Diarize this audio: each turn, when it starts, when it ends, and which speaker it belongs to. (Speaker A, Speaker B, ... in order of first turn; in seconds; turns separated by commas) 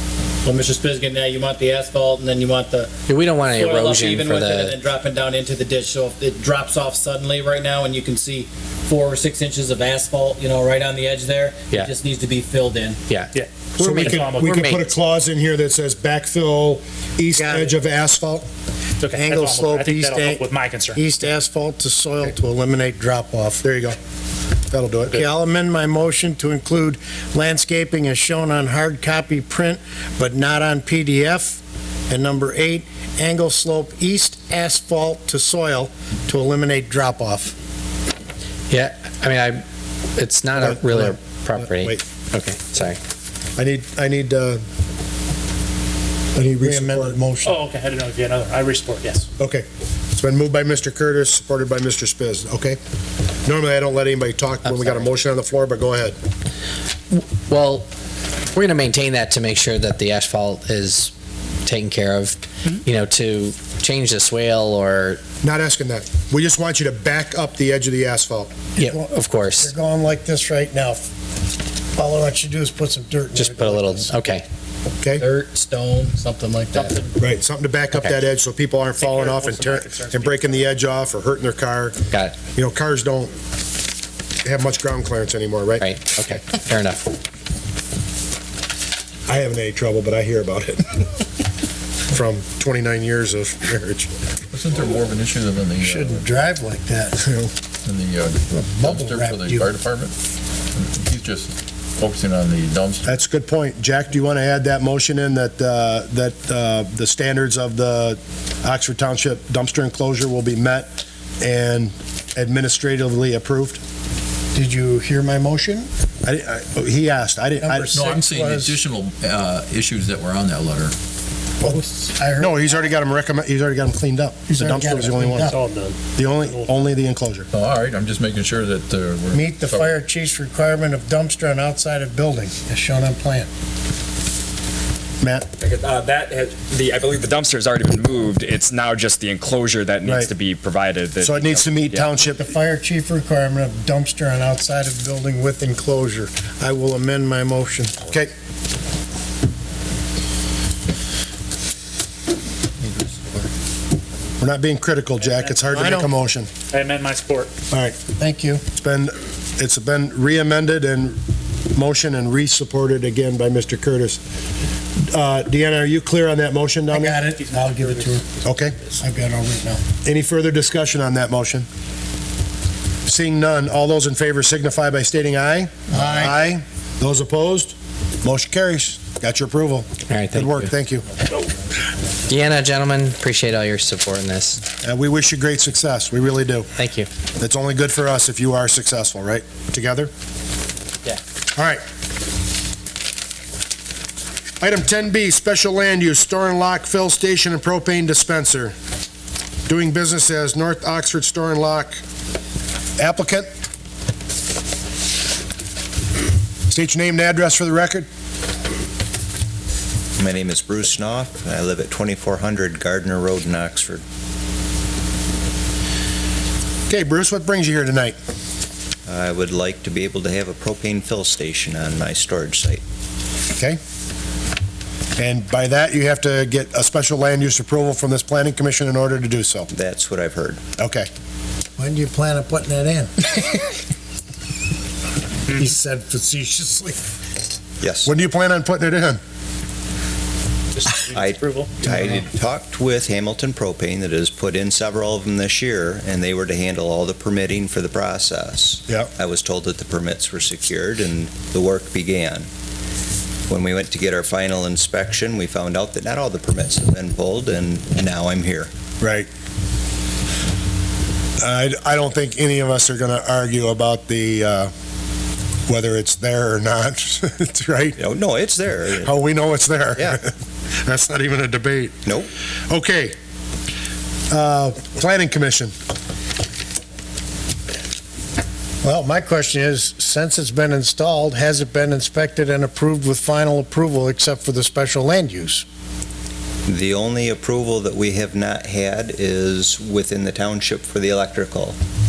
Speaker A: 0.4-2.9, Speaker B: 3.1-4.8, Speaker A: 3.4-13.0, Speaker B: 13.1-14.9, Speaker C: 13.8-18.5, Speaker D: 14.0-14.7, Speaker E: 17.3-17.7, Speaker D: 19.0-21.0, Speaker E: 19.1-23.6, Speaker C: 23.6-24.0, Speaker C: 24.7-25.2, Speaker E: 25.1-37.5, Speaker B: 38.7-39.6, Speaker B: 40.1-43.0, Speaker C: 40.5-42.0, Speaker C: 43.6-44.6, Speaker C: 46.3-47.2, Speaker E: 46.6-47.6, Speaker D: 47.4-49.3, Speaker C: 49.4-52.8, Speaker C: 53.4-56.1, Speaker B: 54.6-55.1, Speaker B: 57.1-57.9, Speaker B: 58.5-61.1, Speaker B: 61.6-65.2, Speaker C: 65.4-68.5, Speaker B: 68.8-69.7, Speaker E: 68.8-71.1, Speaker E: 72.0-74.2, Speaker B: 73.3-74.5, Speaker A: 75.2-77.0, Speaker D: 76.7-77.2, Speaker C: 77.2-82.0, Speaker D: 79.0-80.7, Speaker C: 82.5-83.3, Speaker C: 84.4-85.8, Speaker B: 85.8-87.1, Speaker C: 89.3-91.1, Speaker C: 92.1-94.1, Speaker F: 94.5-96.5, Speaker E: 95.8-97.3, Speaker C: 97.2-97.5, Speaker F: 97.8-100.1, Speaker E: 98.5-99.7, Speaker F: 100.7-103.2, Speaker C: 103.0-113.8, Speaker E: 114.5-115.9, Speaker C: 116.2-117.9, Speaker E: 117.6-118.8, Speaker F: 117.9-121.0, Speaker E: 121.6-122.9, Speaker C: 122.4-125.5, Speaker E: 124.5-125.6, Speaker D: 125.3-126.9, Speaker C: 126.2-127.5, Speaker F: 127.5-130.0, Speaker E: 129.3-133.5, Speaker C: 135.2-135.5, Speaker G: 135.6-142.1, Speaker C: 140.0-140.3, Speaker C: 141.2-142.4, Speaker E: 142.1-148.1, Speaker C: 148.0-148.3, Speaker C: 154.4-156.5, Speaker D: 155.2-155.9, Speaker E: 155.7-156.1, Speaker D: 156.7-157.5, Speaker C: 157.7-158.0, Speaker E: 158.1-158.6, Speaker C: 158.7-161.2, Speaker C: 161.7-164.2, Speaker C: 165.0-167.2, Speaker E: 166.9-168.4, Speaker D: 167.3-169.0, Speaker C: 168.4-168.8, Speaker E: 169.0-169.8, Speaker C: 170.0-171.7, Speaker C: 173.1-181.1, Speaker E: 175.9-176.4, Speaker B: 180.1-180.7, Speaker B: 182.3-184.6, Speaker C: 184.8-186.7, Speaker B: 186.8-187.1, Speaker C: 187.4-190.1, Speaker C: 191.5-191.8, Speaker C: 194.6-198.7, Speaker C: 199.7-202.0, Speaker C: 203.0-203.5, Speaker C: 206.7-208.1, Speaker H: 210.2-214.0, Speaker C: 216.9-218.2, Speaker H: 219.1-222.8, Speaker C: 225.2-229.7, Speaker H: 229.7-230.6, Speaker C: 230.8-231.1, Speaker E: 231.8-233.4, Speaker E: 235.5-237.0, Speaker H: 237.8-238.1, Speaker C: 238.0-239.2, Speaker D: 240.7-241.8, Speaker H: 241.1-252.5, Speaker H: 253.5-258.7, Speaker C: 259.0-259.3, Speaker C: 261.4-264.7, Speaker C: 265.7-268.0, Speaker H: 268.0-269.2, Speaker C: 269.0-270.3, Speaker C: 270.8-271.9, Speaker C: 272.7-273.1, Speaker C: 274.3-275.7, Speaker E: 278.8-285.6, Speaker H: 286.7-291.8